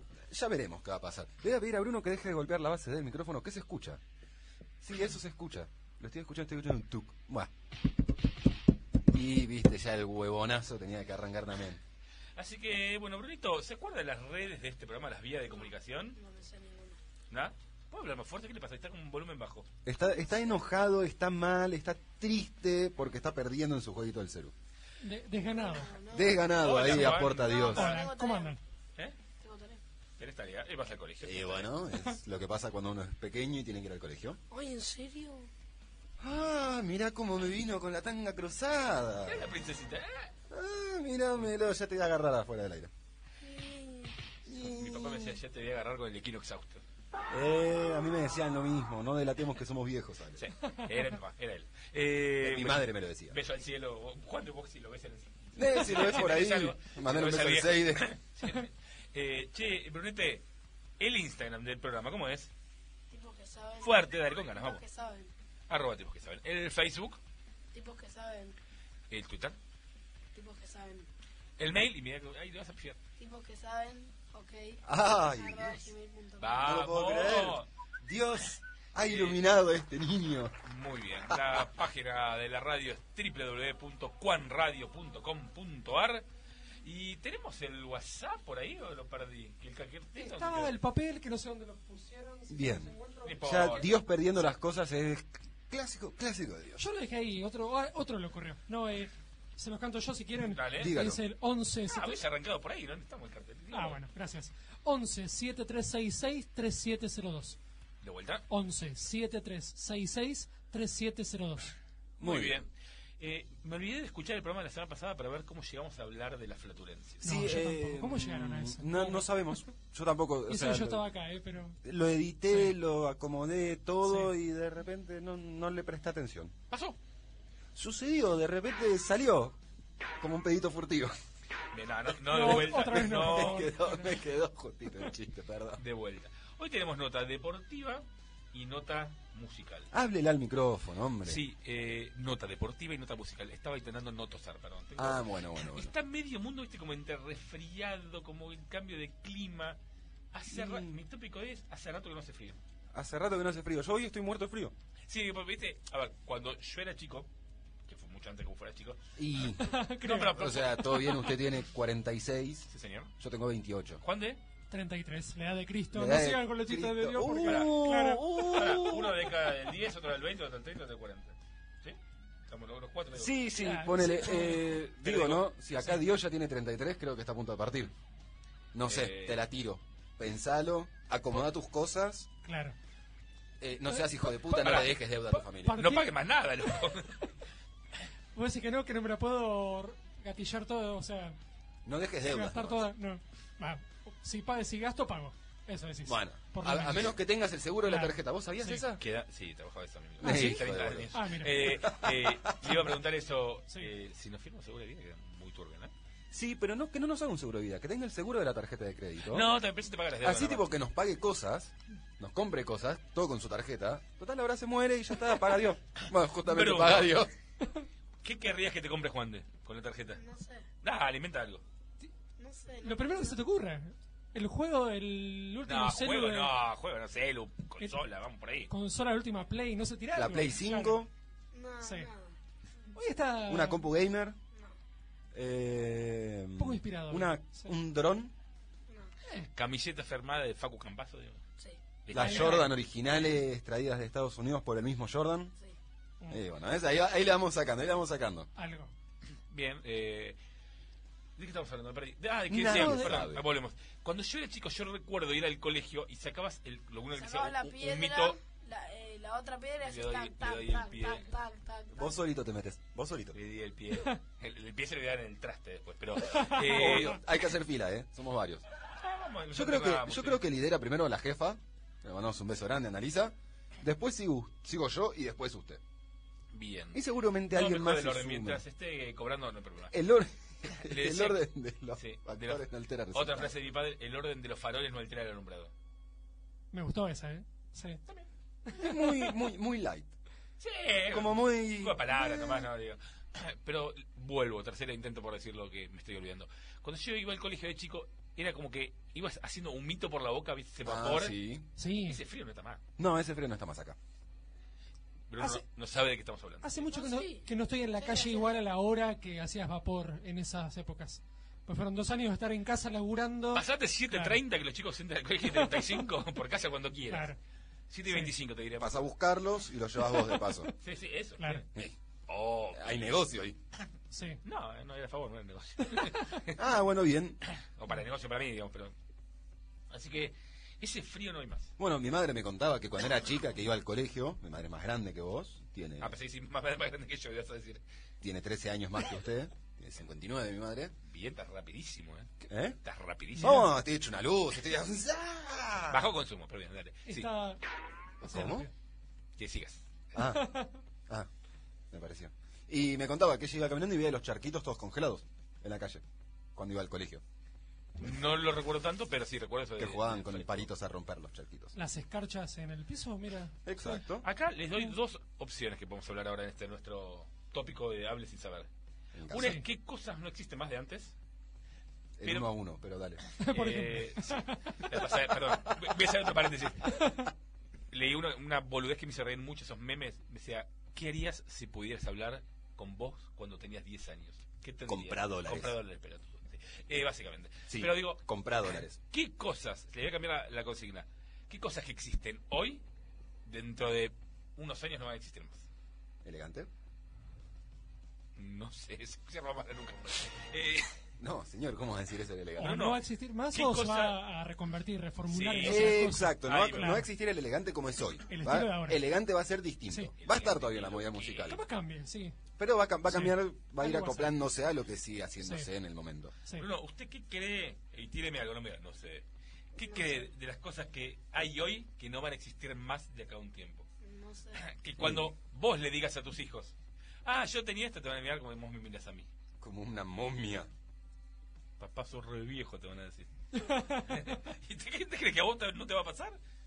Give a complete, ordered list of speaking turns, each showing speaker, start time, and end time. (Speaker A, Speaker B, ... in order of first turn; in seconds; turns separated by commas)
Speaker A: 0.3-4.0, Speaker A: 4.8-7.5, Speaker A: 9.0-11.8, Speaker B: 12.3-16.2, Speaker C: 15.5-17.0, Speaker B: 17.3-19.7, Speaker A: 19.8-24.5, Speaker D: 25.0-25.9, Speaker C: 25.5-28.6, Speaker A: 26.1-27.9, Speaker B: 26.4-28.0, Speaker D: 27.7-28.6, Speaker C: 29.4-29.8, Speaker B: 30.2-31.7, Speaker A: 31.2-34.4, Speaker C: 34.5-35.5, Speaker A: 36.2-39.5, Speaker B: 39.2-40.3, Speaker A: 40.5-42.9, Speaker C: 43.4-44.1, Speaker A: 44.4-45.4, Speaker B: 44.6-46.8, Speaker A: 47.3-50.5, Speaker B: 50.4-60.4, Speaker A: 52.4-53.4, Speaker A: 55.5-58.1, Speaker B: 61.0-62.5, Speaker C: 63.1-65.3, Speaker B: 63.8-64.8, Speaker B: 65.7-67.2, Speaker C: 67.7-68.5, Speaker B: 69.1-69.5, Speaker C: 70.3-71.1, Speaker B: 71.6-73.0, Speaker C: 73.2-76.7, Speaker A: 74.8-75.9, Speaker B: 76.4-77.7, Speaker A: 76.6-80.5, Speaker B: 79.0-79.4, Speaker B: 80.6-86.2, Speaker A: 81.3-81.7, Speaker B: 86.8-90.7, Speaker D: 90.2-93.9, Speaker A: 92.5-96.8, Speaker B: 93.2-93.9, Speaker D: 96.8-102.2, Speaker B: 100.5-101.0, Speaker A: 100.8-101.2, Speaker B: 101.9-104.0, Speaker D: 103.7-107.6, Speaker B: 108.0-108.4, Speaker D: 108.5-111.7, Speaker A: 112.2-112.6, Speaker B: 112.2-117.2, Speaker D: 117.2-119.3, Speaker A: 117.2-121.0, Speaker D: 120.5-121.8, Speaker A: 121.8-126.5, Speaker D: 124.0-124.3, Speaker B: 126.7-127.0, Speaker A: 127.7-129.6, Speaker A: 130.2-131.1, Speaker B: 131.7-133.7, Speaker D: 132.3-134.1, Speaker A: 132.4-135.8, Speaker B: 135.8-139.9, Speaker A: 139.9-141.4, Speaker B: 141.2-149.8, Speaker A: 145.0-145.9, Speaker B: 150.3-152.6, Speaker A: 150.5-150.9, Speaker A: 152.9-154.7, Speaker B: 155.1-157.3, Speaker B: 157.9-159.0, Speaker A: 159.2-159.7, Speaker D: 159.6-161.1, Speaker B: 160.0-160.8, Speaker A: 160.3-162.7, Speaker B: 162.7-163.1, Speaker A: 163.2-164.0, Speaker B: 164.0-164.4, Speaker D: 164.7-168.2, Speaker A: 165.9-169.3, Speaker B: 167.4-173.3, Speaker A: 173.1-177.9, Speaker D: 173.6-174.7, Speaker B: 175.0-176.0, Speaker A: 178.7-182.3, Speaker B: 178.8-179.4, Speaker D: 182.4-182.8, Speaker A: 183.6-185.9, Speaker B: 184.5-184.9, Speaker D: 185.3-186.1, Speaker B: 185.7-187.3, Speaker D: 188.3-191.4, Speaker A: 191.8-192.8, Speaker D: 192.2-197.2, Speaker A: 196.0-199.0, Speaker D: 197.8-198.8, Speaker B: 199.0-205.9, Speaker A: 200.2-202.9, Speaker D: 200.2-201.7, Speaker A: 206.3-209.5, Speaker B: 209.2-210.7, Speaker A: 210.2-217.3, Speaker B: 216.0-217.3, Speaker B: 218.2-220.2, Speaker C: 220.1-220.7, Speaker B: 220.8-221.6, Speaker C: 222.4-223.4, Speaker D: 222.8-226.6, Speaker B: 225.7-228.7, Speaker D: 228.7-231.0, Speaker A: 230.1-231.1, Speaker C: 231.5-232.3, Speaker D: 231.8-232.1, Speaker D: 232.9-233.8, Speaker A: 233.5-234.4, Speaker A: 235.3-238.3, Speaker D: 236.6-237.7, Speaker B: 239.5-241.4, Speaker B: 242.1-242.7, Speaker A: 242.1-245.5, Speaker D: 242.2-242.7, Speaker A: 246.3-248.5, Speaker D: 248.6-248.9, Speaker B: 249.5-250.4, Speaker B: 251.4-258.4, Speaker A: 252.5-253.4, Speaker D: 252.6-253.1, Speaker C: 257.1-262.2, Speaker B: 259.8-261.3, Speaker A: 261.9-263.4, Speaker B: 263.3-267.3, Speaker A: 266.3-268.6, Speaker B: 268.9-270.4, Speaker A: 269.5-275.8, Speaker B: 276.5-279.9, Speaker A: 276.9-278.6, Speaker A: 279.9-283.5, Speaker B: 280.8-281.4, Speaker B: 281.9-285.7, Speaker D: 286.7-288.0, Speaker D: 288.7-289.1, Speaker A: 288.8-290.1, Speaker B: 290.6-301.4, Speaker A: 291.1-292.7, Speaker A: 300.8-301.6, Speaker D: 301.8-302.2, Speaker B: 302.1-302.8, Speaker A: 303.0-304.0, Speaker B: 305.3-306.8, Speaker D: 306.6-314.4, Speaker C: 306.9-308.6, Speaker B: 313.5-317.4, Speaker D: 315.6-315.8, Speaker D: 317.1-317.4, Speaker B: 317.9-319.0, Speaker A: 318.8-320.7, Speaker D: 320.2-320.7, Speaker B: 320.8-321.7, Speaker B: 322.3-323.2, Speaker A: 322.7-323.6, Speaker D: 324.1-324.4, Speaker B: 324.4-326.6, Speaker A: 326.6-327.4, Speaker B: 327.5-328.9, Speaker B: 329.9-331.7, Speaker A: 331.8-336.1, Speaker B: 336.0-337.8, Speaker A: 338.2-340.9, Speaker B: 341.1-343.6, Speaker A: 342.4-342.8, Speaker D: 343.4-343.7, Speaker A: 343.4-346.1, Speaker B: 345.9-347.3, Speaker D: 347.1-347.6, Speaker A: 348.2-348.7, Speaker D: 348.2-348.7, Speaker B: 349.4-349.8, Speaker A: 350.1-350.5, Speaker D: 350.3-350.7, Speaker A: 351.9-356.0, Speaker A: 356.5-357.2, Speaker B: 358.0-360.7, Speaker A: 359.8-361.7, Speaker D: 361.7-364.0, Speaker A: 363.6-364.3, Speaker B: 364.2-368.7, Speaker A: 369.1-369.6, Speaker B: 369.3-371.1, Speaker D: 369.3-369.6, Speaker A: 372.2-373.2, Speaker B: 372.2-372.5, Speaker B: 373.3-377.3, Speaker D: 373.4-374.8, Speaker B: 377.9-392.8, Speaker A: 384.9-385.7, Speaker A: 387.7-389.0, Speaker B: 393.4-395.6, Speaker A: 396.2-396.7, Speaker B: 398.4-400.9, Speaker A: 401.2-402.9, Speaker D: 402.6-407.1, Speaker B: 402.6-404.2, Speaker B: 405.3-407.1, Speaker A: 405.6-411.6, Speaker D: 408.3-409.0, Speaker B: 410.2-411.6, Speaker D: 411.4-412.4, Speaker A: 412.6-416.3, Speaker D: 413.1-414.4, Speaker D: 415.4-415.7, Speaker B: 416.6-419.2, Speaker B: 419.7-423.8, Speaker C: 419.9-420.3, Speaker C: 424.0-424.6, Speaker B: 424.6-426.7, Speaker A: 425.0-425.3, Speaker B: 427.2-429.3, Speaker A: 429.6-430.7, Speaker B: 431.8-433.3, Speaker D: 433.5-434.2, Speaker B: 434.0-436.4